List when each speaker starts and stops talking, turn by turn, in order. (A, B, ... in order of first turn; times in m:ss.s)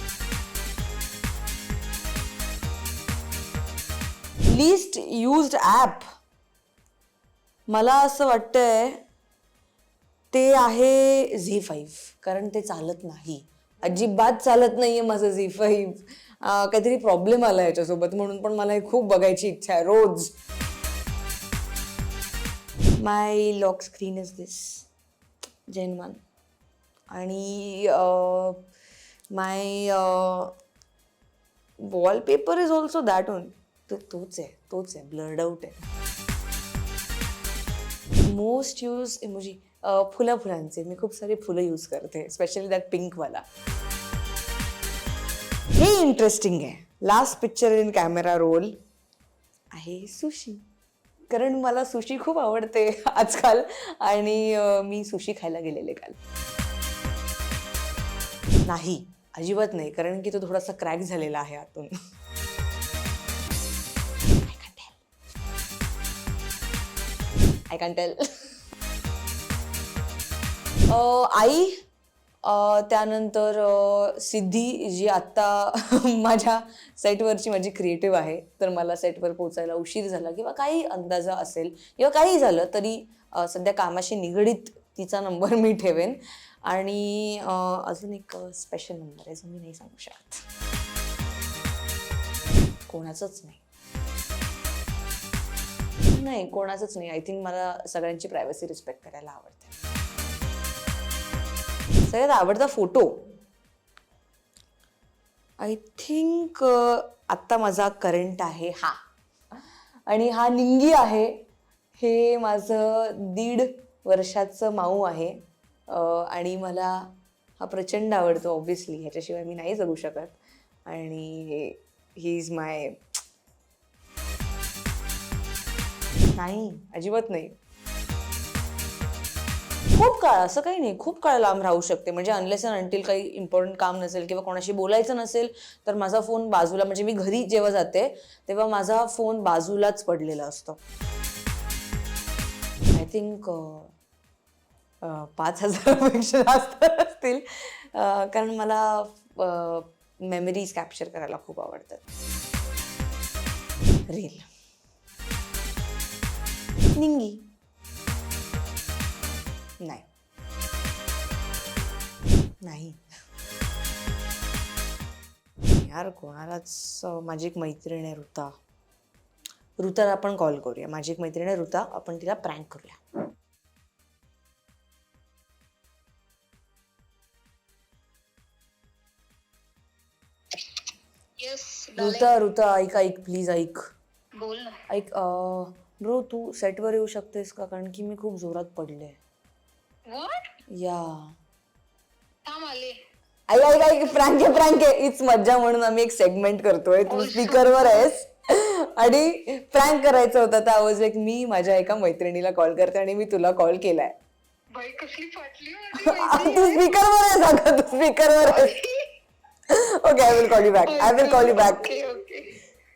0:04.5-0:06.1 A
0:07.7-0:09.0 A
0:10.3-0:20.3 A
0:23.0-0:24.9 A
0:25.7-0:26.2 A
0:27.1-0:28.6 A
0:29.3-0:30.5 A
0:31.8-0:35.8 A
0:38.3-0:43.4 A
0:45.8-0:48.8 A
0:49.7-0:50.6 A
0:51.3-0:56.2 A
0:58.7-1:01.9 A
1:04.4-1:05.0 A
1:07.7-1:08.3 A
1:10.9-1:11.8 A
1:12.4-1:30.4 A
1:32.9-1:33.6 A
1:36.1-1:39.7 A
1:42.0-1:43.2 A
1:45.6-1:49.0 A
1:50.1-1:51.4 A
1:52.0-1:55.4 A
1:55.9-2:03.0 A
2:06.4-2:07.6 A
2:10.0-2:20.8 A
2:22.9-2:23.9 A
2:25.0-2:32.0 A
2:34.1-2:34.5 A
2:37.0-2:37.4 A
2:39.8-2:40.1 A
2:42.6-2:43.0 A
2:45.8-2:48.5 A
2:49.8-2:53.0 A
3:01.4-3:02.3 B
3:02.0-3:03.8 A
3:04.4-3:04.8 B
3:04.9-3:09.2 A
3:10.1-3:10.5 B
3:10.7-3:11.3 A
3:12.5-3:13.0 B
3:13.5-3:24.1 A
3:17.1-3:17.8 B
3:24.7-3:26.8 B
3:26.0-3:28.7 A
3:28.5-3:29.1 B
3:29.7-3:32.0 A
3:30.8-3:32.5 B